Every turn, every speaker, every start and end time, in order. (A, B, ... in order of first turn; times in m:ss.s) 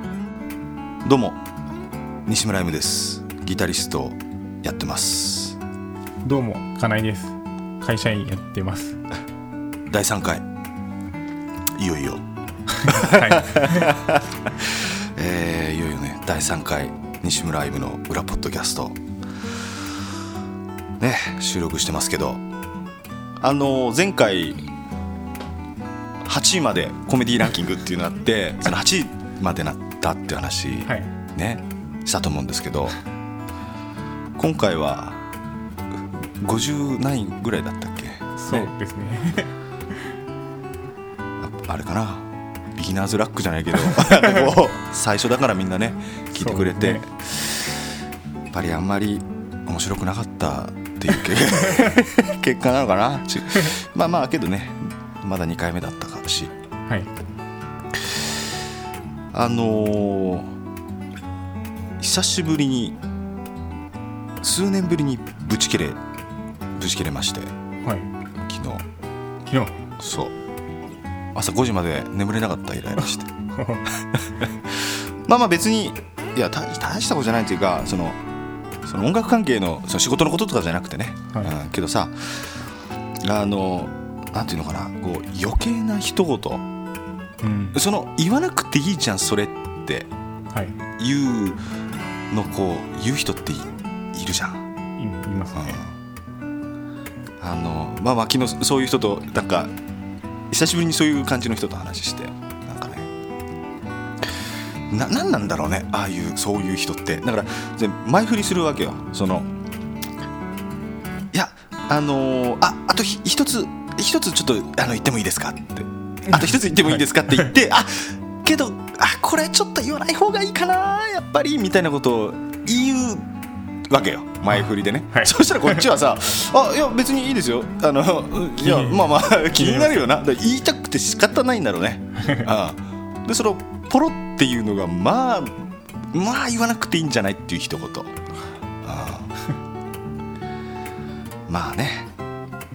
0:01.0-0:01.4 A
0:02.3-0:05.6 A
0:06.2-0:09.0 B
0:09.9-0:10.4 A
0:11.8-0:12.2 A
0:12.7-0:13.9 B
0:12.8-0:19.0 A
0:21.0-0:22.4 A
0:23.4-0:24.6 A
0:26.2-0:33.0 A
0:30.9-0:31.1 B
0:34.4-0:35.2 A
0:36.4-0:38.7 A
0:38.4-0:40.0 B
0:41.4-0:47.6 A
0:43.8-0:44.5 B
0:46.3-0:47.0 B
0:48.5-0:56.5 A
0:51.6-0:52.0 B
0:56.8-0:57.1 B
0:59.3-1:00.5 A
1:02.0-1:03.0 A
1:04.4-1:06.0 A
1:06.8-1:07.5 A
1:07.8-1:08.1 B
1:08.5-1:08.8 A
1:09.5-1:09.8 B
1:10.0-1:10.3 A
1:11.4-1:13.3 A
1:13.5-1:13.8 B
1:14.0-1:18.2 A
1:18.9-1:22.6 A
1:23.2-1:26.6 A
1:27.4-1:27.8 B
1:27.7-1:30.1 A
1:30.5-1:30.8 B
1:31.0-1:31.6 A
1:32.3-1:34.6 A
1:35.0-1:35.8 B
1:35.6-1:36.0 A
1:37.4-1:39.7 A
1:40.5-1:43.1 A
1:44.9-1:49.5 A
1:51.3-2:03.2 A
1:56.3-1:57.5 B
2:03.9-2:18.1 A
2:04.5-2:05.8 B
2:08.6-2:10.2 B
2:12.2-2:12.5 B
2:18.8-2:19.3 A
2:21.5-2:22.1 A